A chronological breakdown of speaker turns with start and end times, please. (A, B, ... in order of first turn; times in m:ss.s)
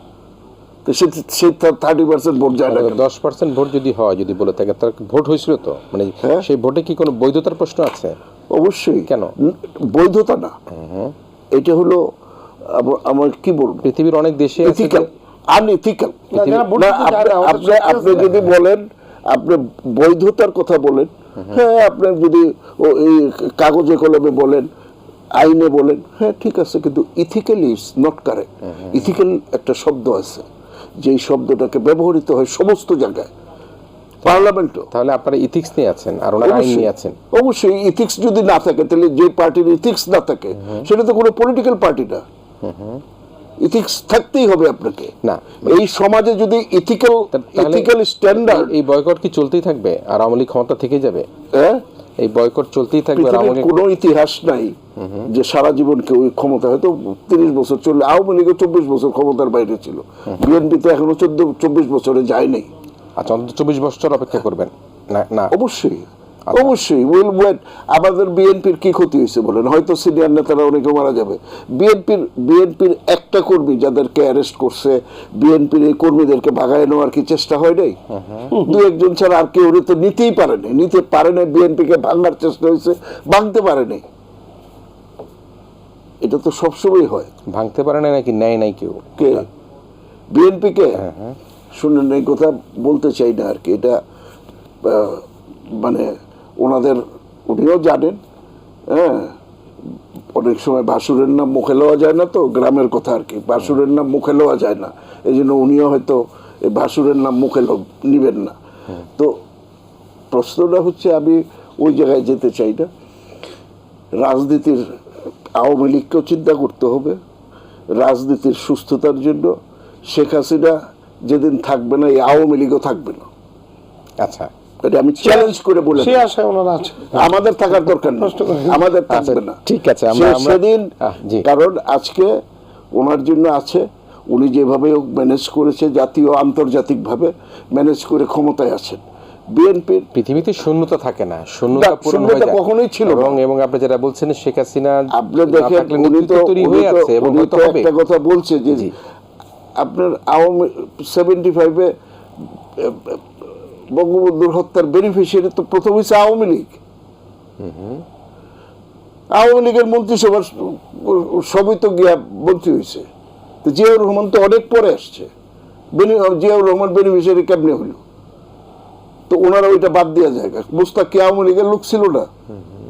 0:00.8-0:03.0 A
0:02.7-0:08.2 B
0:08.5-0:10.5 A
0:09.1-0:09.4 B
0:10.7-0:11.1 B
0:11.5-0:12.1 A
0:12.6-0:13.9 A
0:13.8-0:15.1 B
0:14.6-0:24.7 A
0:16.3-0:18.3 C
0:16.4-0:16.7 B
0:25.3-0:30.5 A
0:31.0-0:33.3 A
0:34.2-0:34.9 A
0:34.2-0:37.2 B
0:36.4-0:42.2 A
0:40.6-0:40.8 B
0:42.6-0:43.0 B
0:43.6-0:48.7 A
0:45.2-0:45.8 B
0:47.3-0:51.3 B
0:51.5-0:51.8 A
0:52.2-0:53.7 B
0:53.2-0:54.8 A
0:55.0-0:55.3 B
0:55.3-1:02.7 A
1:03.2-1:05.5 B
1:05.5-1:18.0 A
1:18.1-1:18.5 B
1:18.5-1:24.0 A
1:26.2-1:27.3 A
1:27.5-1:29.5 B
1:29.2-1:29.5 A
1:30.3-1:31.0 A
1:31.0-1:31.4 B
1:31.7-1:34.0 A
1:34.8-1:38.2 A
1:38.9-1:39.4 A
1:40.3-1:48.6 A
1:50.3-1:52.9 A
1:54.2-1:54.9 A
1:55.6-1:57.2 A
1:57.9-2:03.3 A
2:04.2-2:04.5 B
2:04.8-2:06.2 A
2:05.2-2:07.3 C
2:07.1-2:12.3 A
2:07.9-2:08.9 C
2:09.1-2:11.4 B
2:12.9-2:20.1 A
2:20.1-2:27.9 B
2:21.7-2:23.4 A
2:25.1-2:28.9 A
2:29.8-2:31.9 A
2:32.8-2:33.2 A
2:33.9-2:36.8 A
2:37.6-2:38.0 B
2:39.3-2:43.1 A
2:43.6-2:45.3 A
2:45.9-2:48.0 A
2:49.3-2:52.3 A